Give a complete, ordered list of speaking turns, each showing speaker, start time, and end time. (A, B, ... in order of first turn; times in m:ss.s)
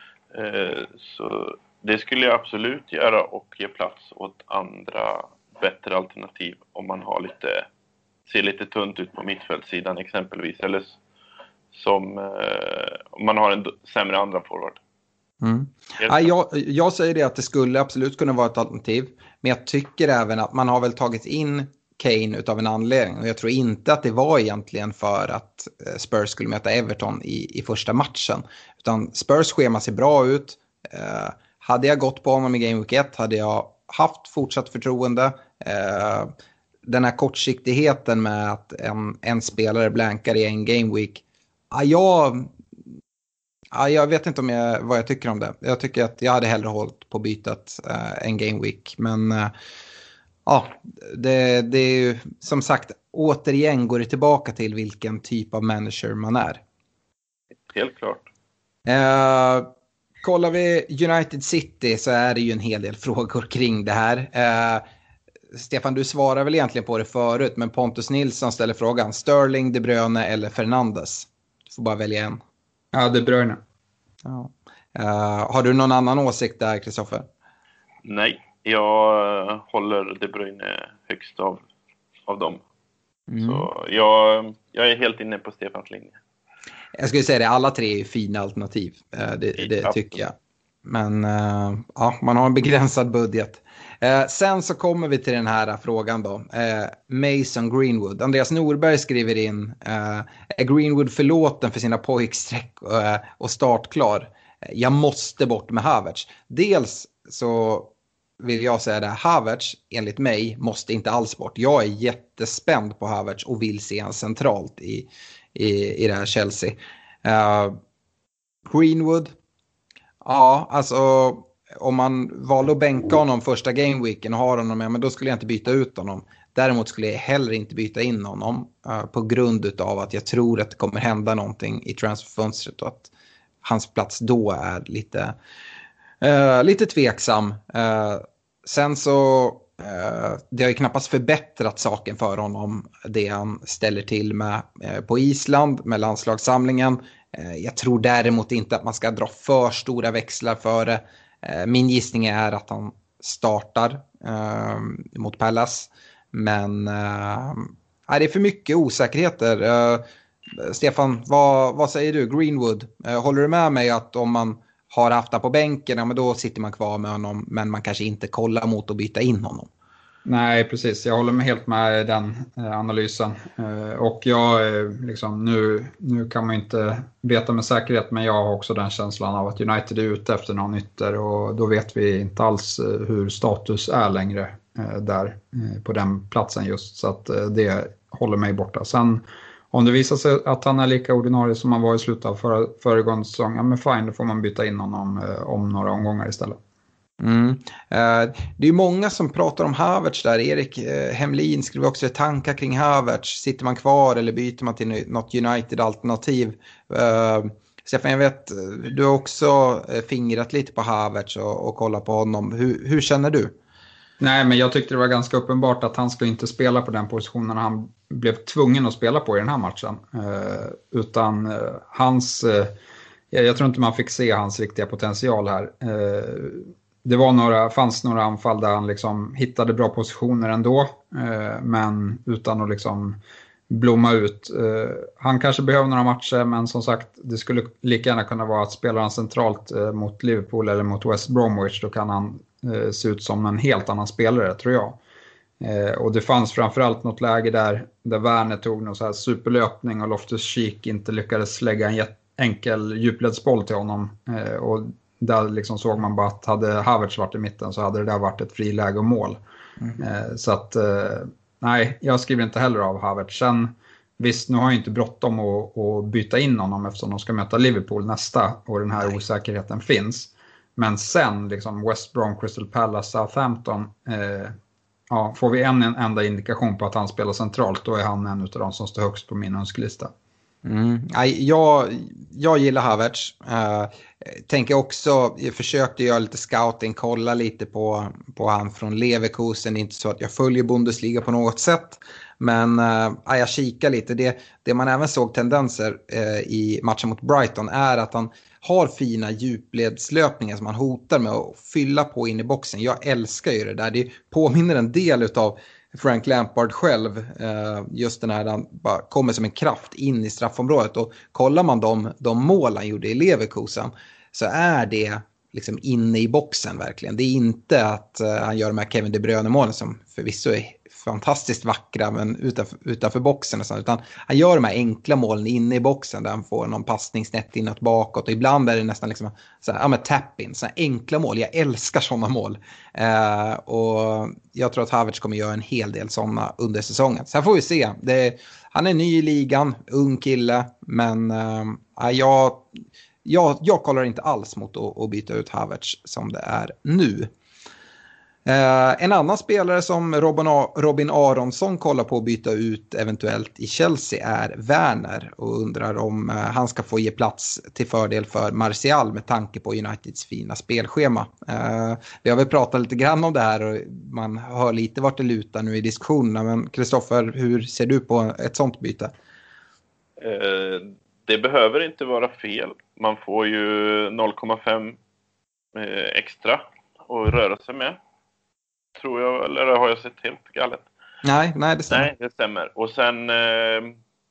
0:00.3-0:07.6 A
0:08.3-0:11.0 A
0:11.7-0:14.8 A
0:15.4-0:36.3 B
0:16.0-0:16.3 A
0:36.8-0:42.5 B
0:43.7-0:49.5 B
0:50.4-0:56.6 B
0:57.7-0:58.2 A
0:58.8-0:59.7 B
1:00.2-1:04.8 B
1:05.5-1:12.4 B
1:12.9-1:13.6 C
1:14.2-1:17.3 B
1:18.0-1:21.6 A
1:22.2-1:22.6 A
1:23.3-1:23.6 B
1:23.4-1:26.2 A
1:27.0-1:57.8 B
1:29.6-1:30.2 A
1:58.7-1:59.3 B
2:00.2-2:13.1 B
2:13.6-2:15.3 B
2:16.2-2:49.7 B
2:50.2-3:16.6 C
3:17.2-3:33.5 B
3:34.2-3:42.7 C
3:43.3-4:05.0 C
4:05.6-4:19.4 C
4:20.0-4:34.5 C
4:35.1-4:40.1 C
4:40.6-5:42.6 B
5:43.2-5:47.3 B
5:48.4-6:09.1 B
6:10.2-6:15.0 A
6:15.7-6:18.0 A
6:19.0-6:20.8 A
6:21.2-6:22.1 B
6:21.9-6:24.0 A